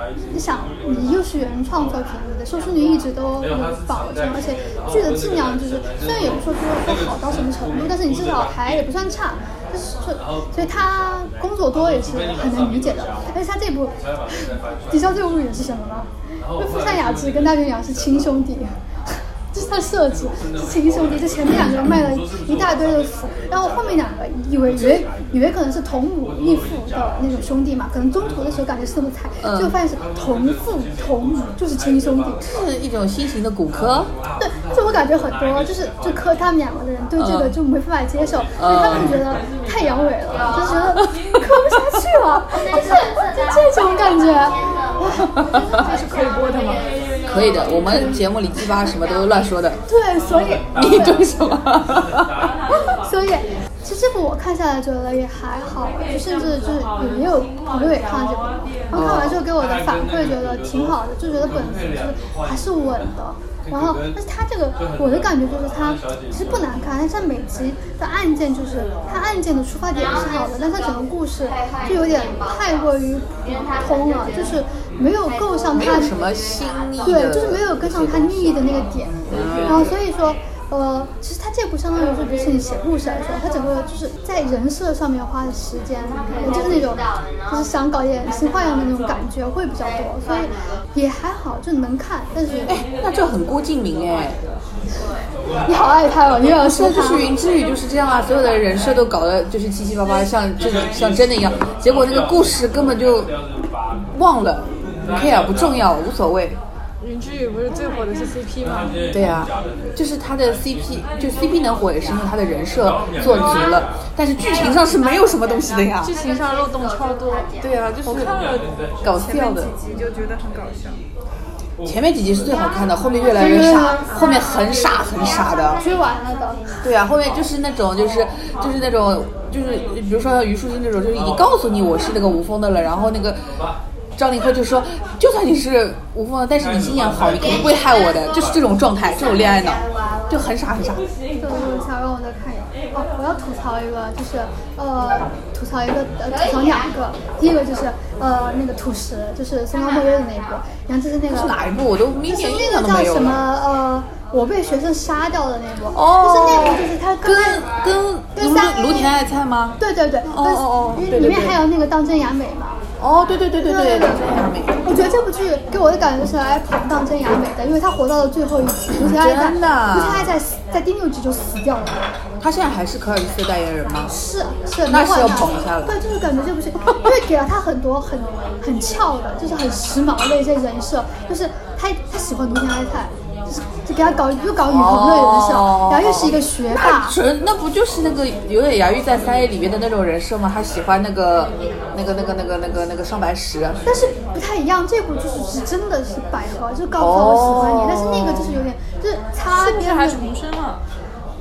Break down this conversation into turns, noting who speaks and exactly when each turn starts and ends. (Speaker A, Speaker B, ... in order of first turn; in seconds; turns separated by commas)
Speaker A: 0.3-18.7, Speaker A: 19.5-32.5, Speaker B: 29.4-29.8, Speaker B: 32.4-34.1, Speaker A: 34.4-45.5, Speaker B: 37.2-37.5, Speaker B: 38.6-39.2, Speaker C: 45.8-46.9, Speaker B: 47.3-49.8, Speaker A: 47.9-48.2, Speaker A: 49.9-51.3, Speaker B: 50.7-52.3, Speaker A: 52.9-76.2, Speaker B: 58.9-59.4, Speaker B: 75.7-79.9, Speaker A: 77.0-92.8, Speaker B: 92.7-94.4, Speaker A: 95.7-97.3, Speaker B: 96.5-103.3, Speaker B: 104.1-106.6, Speaker C: 107.0-109.1, Speaker B: 109.1-116.2, Speaker C: 116.0-121.0, Speaker B: 117.6-118.3, Speaker B: 119.0-119.7, Speaker B: 121.8-125.8, Speaker A: 123.3-124.5, Speaker A: 125.4-126.8, Speaker B: 126.8-133.6, Speaker B: 134.2-141.0, Speaker A: 141.3-151.6, Speaker B: 151.3-153.4, Speaker A: 152.2-157.7, Speaker B: 155.9-161.6, Speaker A: 158.3-159.2, Speaker A: 159.8-162.8, Speaker B: 163.0-164.8, Speaker A: 163.6-172.1, Speaker B: 169.0-170.3, Speaker B: 172.4-174.1, Speaker A: 174.1-187.2, Speaker B: 174.9-175.9, Speaker B: 184.7-193.8, Speaker A: 193.8-200.2, Speaker B: 197.0-198.6, Speaker C: 199.5-200.8